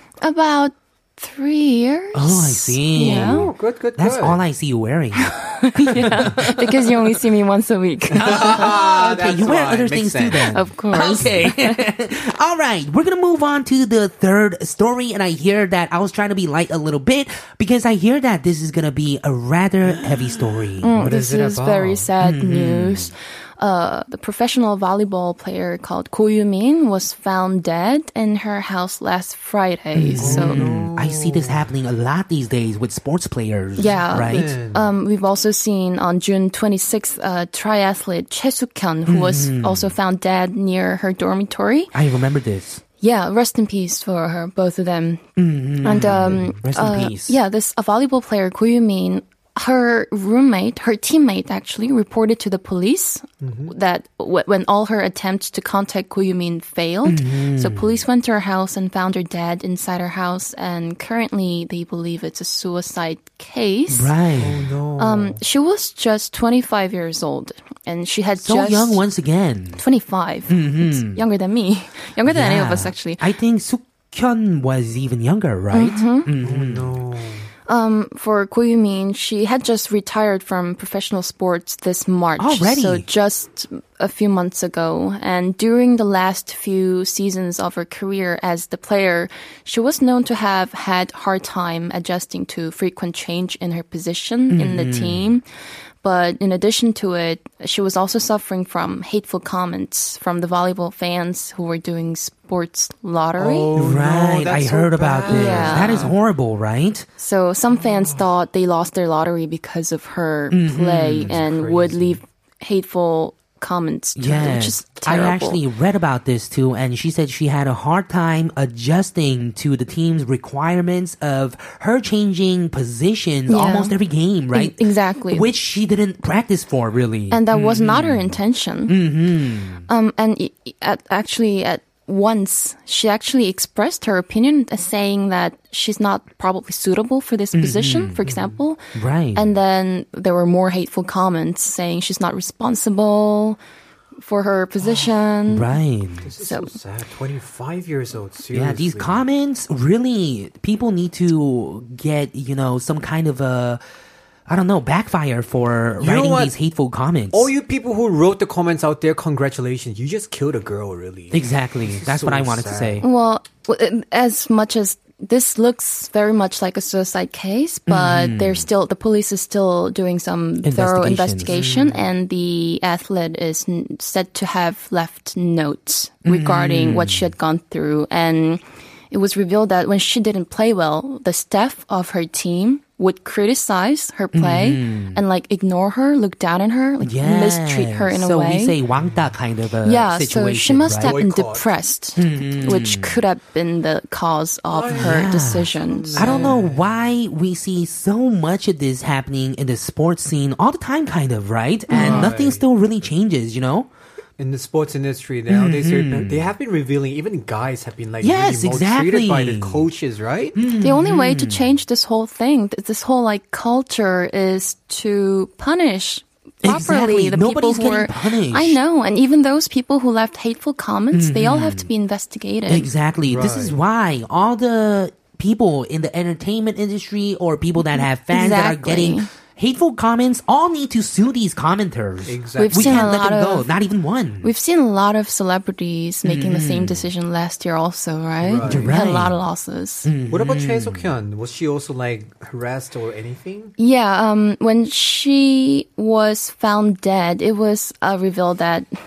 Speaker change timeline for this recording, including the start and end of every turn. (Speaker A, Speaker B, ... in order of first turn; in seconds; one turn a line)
Speaker A: 0.2-3.5
Speaker B: 2.1-6.9
Speaker C: 3.0-4.4
Speaker A: 5.2-8.7
Speaker B: 8.1-20.9
Speaker C: 8.2-10.6
Speaker A: 10.5-11.8
Speaker C: 19.9-22.1
Speaker A: 20.8-30.6
Speaker B: 22.2-23.1
Speaker B: 29.9-34.5
Speaker C: 30.2-31.7
Speaker A: 33.8-41.9
Speaker C: 34.1-34.9
Speaker B: 39.1-39.9
Speaker B: 41.9-42.8
Speaker A: 43.0-45.2
Speaker B: 45.4-47.4
Speaker A: 45.8-64.1
Speaker C: 46.0-46.4
Speaker C: 53.4-53.7
Speaker B: 57.0-58.0
Speaker B: 63.9-64.7
Speaker C: 64.4-65.4
Speaker A: 65.0-69.0
Speaker B: 68.4-69.8
Speaker A: 69.8-73.3
Speaker B: 70.5-71.2
Speaker B: 72.2-76.9
Speaker A: 75.7-76.3
Speaker C: 76.4-77.5
Speaker A: 77.7-95.4
Speaker B: 82.4-83.0
Speaker B: 94.5-95.3
Speaker A: 96.0-103.7
Speaker C: 103.4-106.1
Speaker B: 103.8-107.1
Speaker A: 105.3-106.1
Speaker A: 107.2-115.6
Speaker C: 107.8-108.2
Speaker B: 110.5-111.4
Speaker C: 111.2-112.2
Speaker B: 114.2-128.3
Speaker A: 123.5-124.0
Speaker A: 124.5-125.5
Speaker A: 127.3-129.0
Speaker B: 128.9-129.9
Speaker A: 129.9-138.8
Speaker B: 137.5-138.2
Speaker C: 138.2-138.6
Speaker B: 138.9-139.5
Speaker A: 139.3-143.6
Speaker A: 144.2-145.7
Speaker C: 144.8-145.1
Speaker B: 145.5-146.3
Speaker C: 146.2-149.2
Speaker A: 146.4-146.7
Speaker B: 148.5-153.8
Speaker B: 154.5-157.5
Speaker C: 156.0-156.6
Speaker C: 157.3-163.1
Speaker B: 161.3-163.1
Speaker A: 163.0-188.8
Speaker B: 167.9-168.7
Speaker B: 170.6-172.0
Speaker C: 171.5-171.8
Speaker B: 176.2-177.3
Speaker B: 184.3-185.2
Speaker B: 187.0-191.2
Speaker A: 189.8-196.5
Speaker C: 191.0-191.7
Speaker B: 192.2-193.2
Speaker C: 194.7-197.0
Speaker B: 194.9-203.9
Speaker A: 201.9-202.3
Speaker C: 201.9-202.6
Speaker C: 204.4-210.6
Speaker B: 205.5-206.5
Speaker B: 208.2-209.9
Speaker B: 210.6-211.7
Speaker A: 210.8-222.9
Speaker B: 216.6-218.8
Speaker B: 221.1-221.9
Speaker B: 222.7-234.5
Speaker C: 223.2-223.8
Speaker A: 227.8-229.3
Speaker C: 232.3-233.1
Speaker A: 232.6-233.7
Speaker A: 234.4-240.1
Speaker B: 236.2-237.1
Speaker C: 238.4-238.9
Speaker B: 238.7-239.4
Speaker B: 240.0-241.1
Speaker C: 240.3-243.7
Speaker A: 243.8-248.9